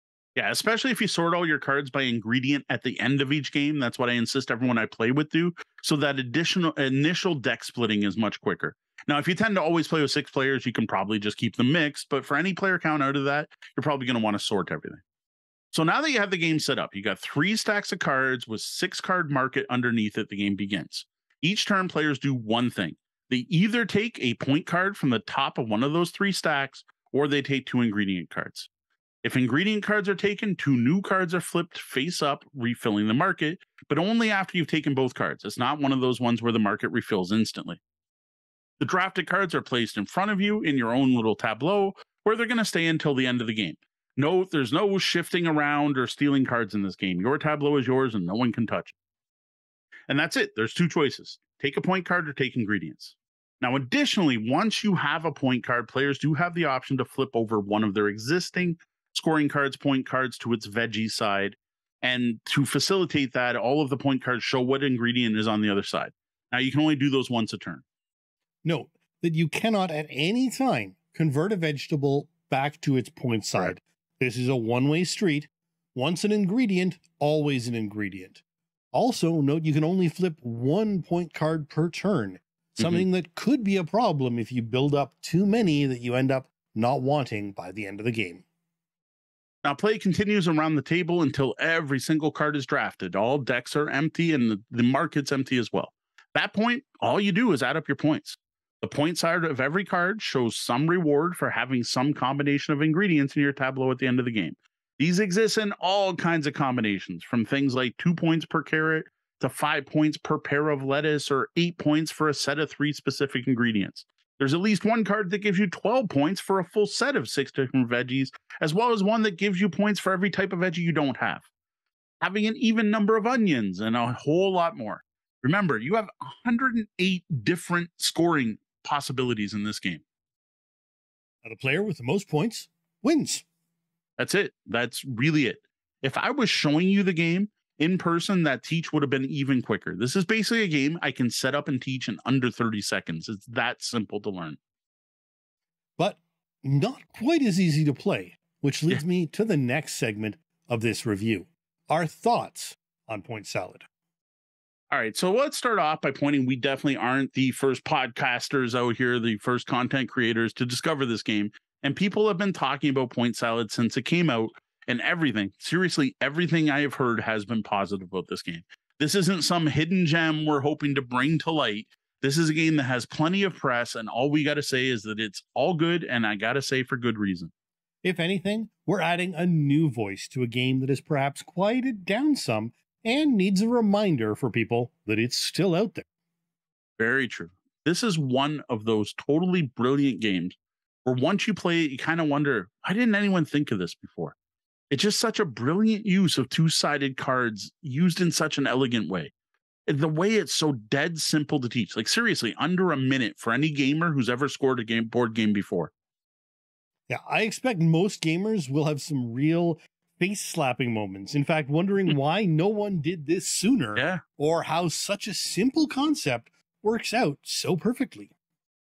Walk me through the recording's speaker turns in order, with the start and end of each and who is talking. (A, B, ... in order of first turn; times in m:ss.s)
0:00.4-0:15.0 A
0:15.7-0:28.7 A
0:29.2-0:37.8 A
0:38.8-0:48.9 A
0:50.1-1:07.8 A
1:08.6-1:18.4 B
1:18.9-1:28.4 B
1:29.6-2:01.5 A
2:02.2-2:10.0 A
2:11.4-2:13.4 B
2:14.2-2:24.6 A
2:26.0-2:33.9 B
2:34.9-2:57.5 A
2:58.0-3:06.0 B
3:07.0-3:14.4 A
3:14.9-3:19.3 A
3:19.9-3:25.9 A
3:27.1-3:38.3 B
3:34.0-3:34.2 A